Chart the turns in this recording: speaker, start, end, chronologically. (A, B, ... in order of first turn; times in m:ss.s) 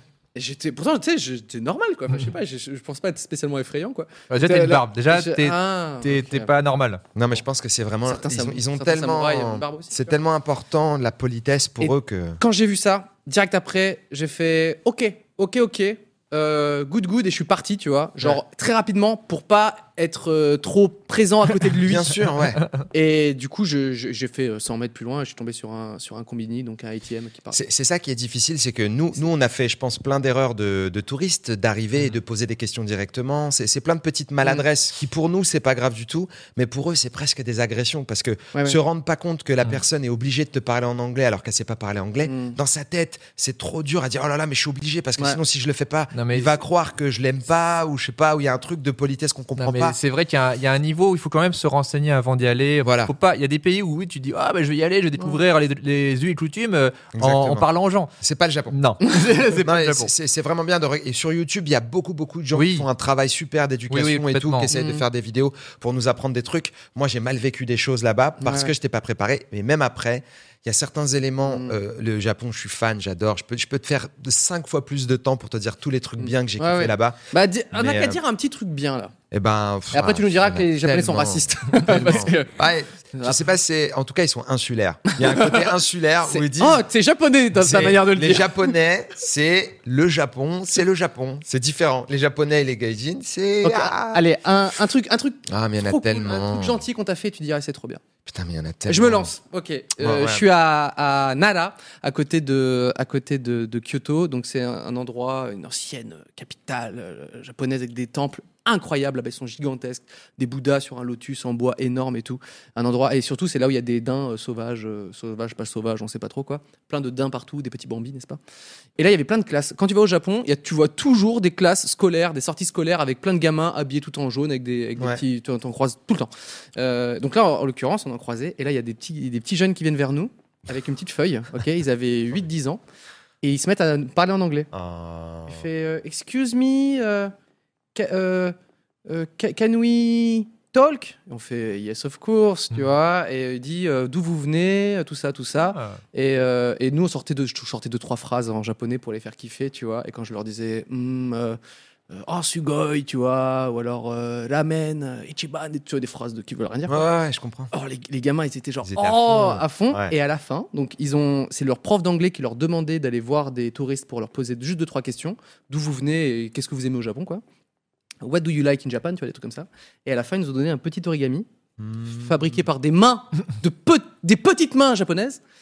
0:00.4-0:06.5 A
0:04.3-0:07.0 B
0:07.2-0:12.4 C
0:08.1-0:10.2 A
0:11.8-0:22.2 A
0:21.8-0:22.6 C
0:22.9-0:27.6 A
0:27.5-0:50.0 C
0:38.5-0:38.8 A
0:42.2-0:42.6 A
0:46.1-0:46.5 B
0:49.6-0:58.1 B
0:52.8-0:53.1 C
0:57.2-0:57.7 C
0:58.2-0:58.8 C
0:58.7-1:00.1 B
0:59.6-1:18.2 C
1:02.6-1:02.9 B
1:03.9-1:04.7 B
1:04.7-1:05.0 A
1:08.4-1:08.7 A
1:11.5-1:11.8 A
1:16.2-1:19.1 A
1:19.3-1:26.8 C
1:19.9-1:22.5 A
1:23.1-1:23.4 A
1:25.1-1:25.7 A
1:26.2-1:28.7 A
1:27.6-1:34.2 C
1:33.6-1:38.0 A
1:35.5-1:36.8 C
1:38.3-1:39.3 C
1:38.9-1:58.4 A
1:40.0-1:40.4 C
1:59.0-2:12.8 A
2:13.4-2:14.7 A
2:14.7-2:15.6 C
2:15.5-2:17.3 A
2:18.0-2:18.6 A
2:19.1-2:31.6 A
2:25.7-2:26.0 B
2:32.1-2:37.1 A
2:36.9-2:37.7 C
2:37.7-2:47.4 A
2:38.8-2:40.1 C
2:48.2-2:51.5 A
2:51.8-2:52.5 C
2:52.1-2:55.4 A